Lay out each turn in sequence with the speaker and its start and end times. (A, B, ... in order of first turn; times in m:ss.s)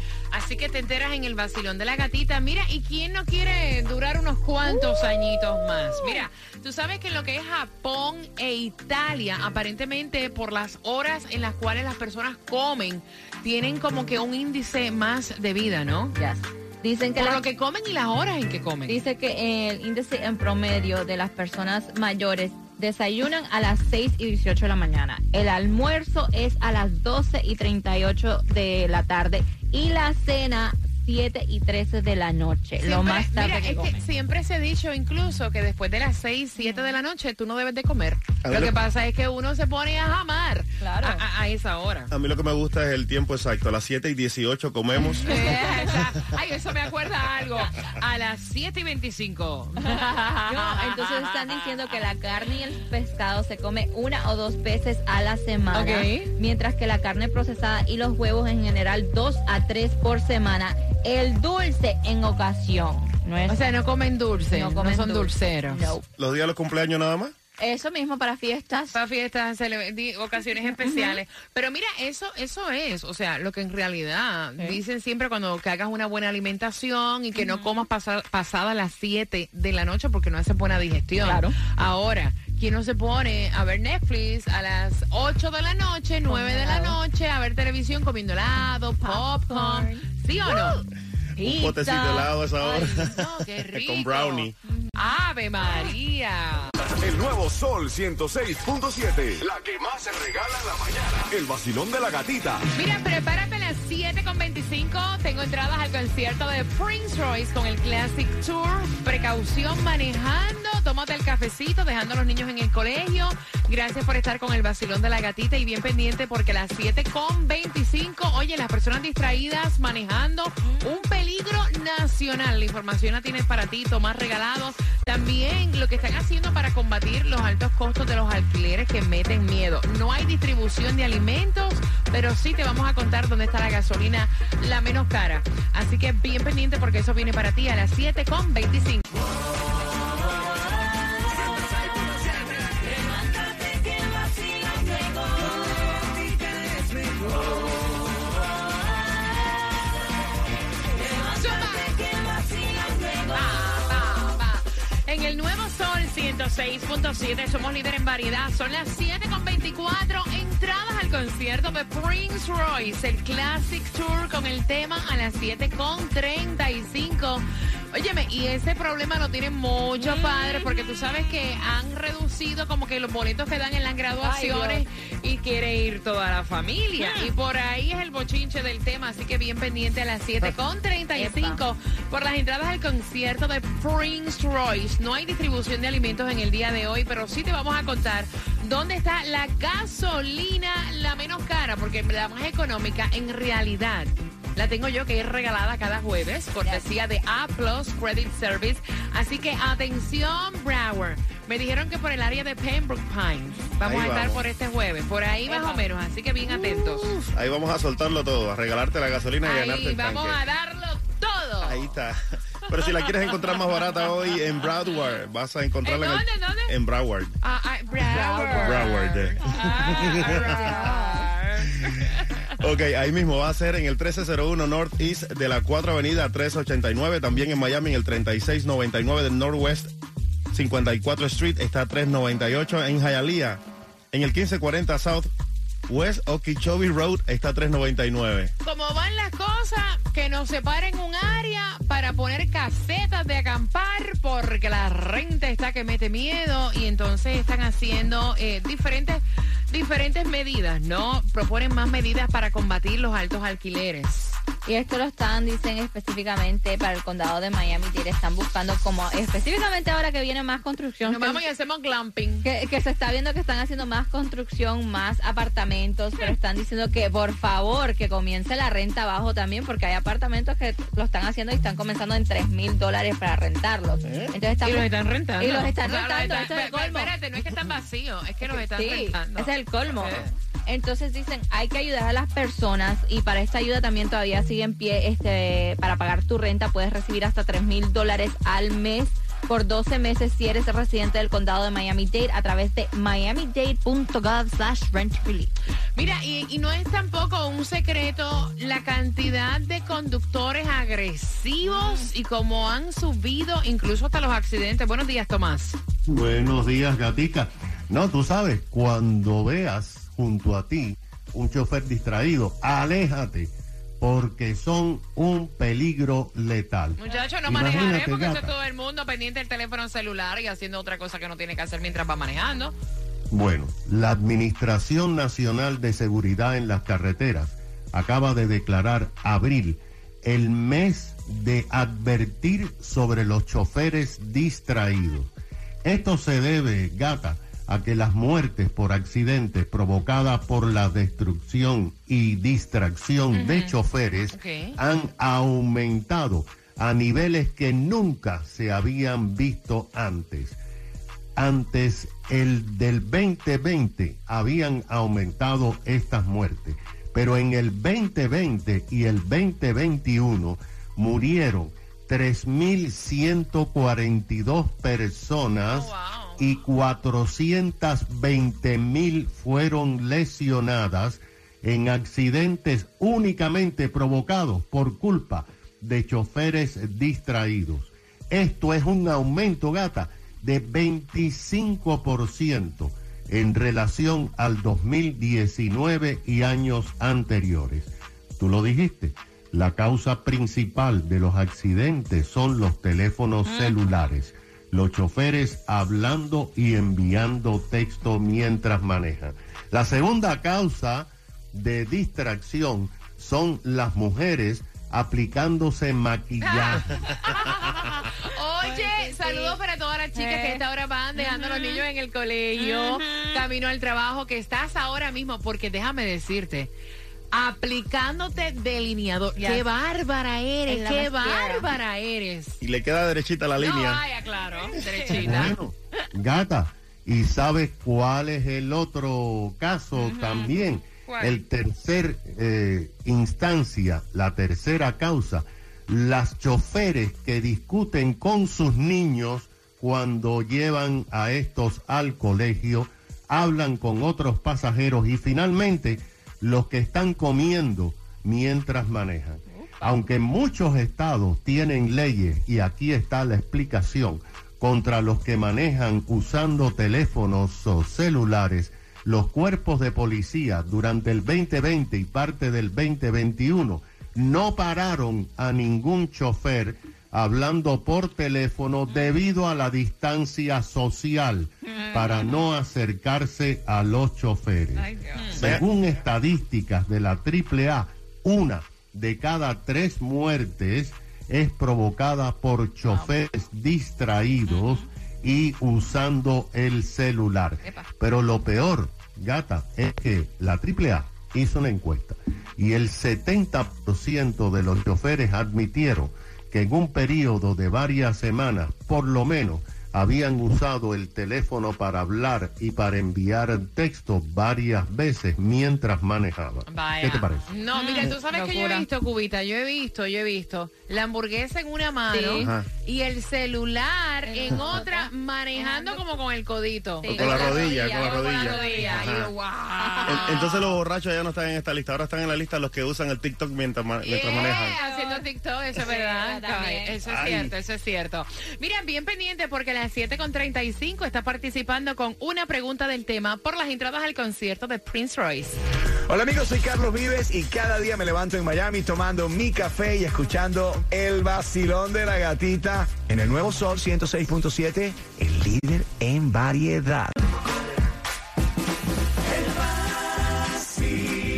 0:00.3-0:16.1 A
0:04.7-0:05.0 B
0:05.9-0:06.2 B
0:16.1-0:17.4 B
0:17.2-0:19.0 A
0:18.9-0:34.0 B
0:32.8-0:42.1 A
0:36.6-0:37.0 B
0:38.4-0:38.7 C
0:40.8-0:41.2 B
0:42.1-0:45.5 C
0:45.2-0:52.0 A
0:45.2-0:46.0 B
0:49.8-1:03.8 B
0:55.7-0:56.3 A
1:03.5-1:05.8 A
1:04.5-1:06.0 B
1:06.2-1:07.3 C
1:07.6-1:08.9 B
1:08.9-1:30.8 A
1:10.5-1:11.2 B
1:17.3-1:17.9 B
1:21.2-1:21.5 B
1:26.3-1:27.0 B
1:29.0-1:30.8 B
1:31.4-1:32.9 B
1:31.4-1:33.2 C
1:32.6-1:36.7 A
1:33.7-1:34.5 C
1:36.9-1:42.6 D
1:42.7-2:19.0 A
2:00.6-2:00.9 B
2:21.2-2:22.2 B
2:22.7-2:29.6 B
2:30.9-2:33.9 B
2:31.2-2:32.0 A
2:33.3-3:27.1 A
2:50.0-2:50.7 B
2:54.2-2:54.8 B
2:57.0-2:57.3 B
3:01.1-3:01.6 B
3:23.8-3:24.4 C
3:25.4-3:25.9 B
3:27.1-3:30.4 C
3:29.4-3:31.9 A
3:31.6-3:37.3 C
3:32.7-3:33.8 A
3:34.6-3:35.0 A
3:35.8-3:36.7 A
3:37.4-3:42.5 A
3:38.0-3:39.0 B
3:38.6-3:40.9 C
3:39.8-3:41.3 B
3:42.6-3:49.9 C
3:50.5-3:53.6 C
3:54.1-3:55.3 C
3:55.9-3:58.5 C
3:58.6-4:14.4 A
4:14.6-4:21.4 B
4:21.0-4:22.4 A
4:22.4-4:37.1 B
4:34.0-4:34.3 C
4:34.6-4:40.3 A
4:38.4-4:55.5 B
4:56.0-5:05.8 A
5:01.6-5:02.1 B
5:06.0-5:18.5 E
5:17.0-5:22.7 A
5:23.3-5:35.3 E
5:35.8-5:50.6 E
5:43.3-5:43.7 A
5:44.3-5:44.8 A
5:51.4-6:46.9 E
6:05.7-6:06.4 A
6:33.5-6:33.8 B
6:46.4-6:56.7 A
6:48.6-6:49.6 B
6:50.1-6:50.6 B
6:51.2-6:51.8 B
6:52.6-6:53.4 B
6:57.3-7:02.6 A
6:59.4-6:59.6 B
7:00.7-7:01.7 B
7:02.6-7:04.0 C
7:03.6-7:05.6 A
7:05.0-7:05.4 B
7:05.1-8:27.5 E
7:10.0-7:10.5 B
7:11.0-7:11.4 A
7:29.6-7:29.9 A
7:51.6-7:52.3 B
7:54.8-7:55.4 B
7:55.2-7:55.4 A
8:02.9-8:03.1 B
8:04.5-8:04.8 B
8:07.6-8:07.9 B
8:26.7-8:40.8 A
8:27.7-8:28.9 B
8:32.1-8:32.5 B
8:32.4-8:32.6 C
8:34.2-8:36.0 B
8:37.0-8:39.1 B
8:37.1-8:39.3 C
8:39.8-8:40.5 B
8:40.0-8:44.8 C
8:44.0-8:55.6 A
8:44.3-8:47.0 B
8:47.2-8:47.4 E
8:56.1-9:07.1 F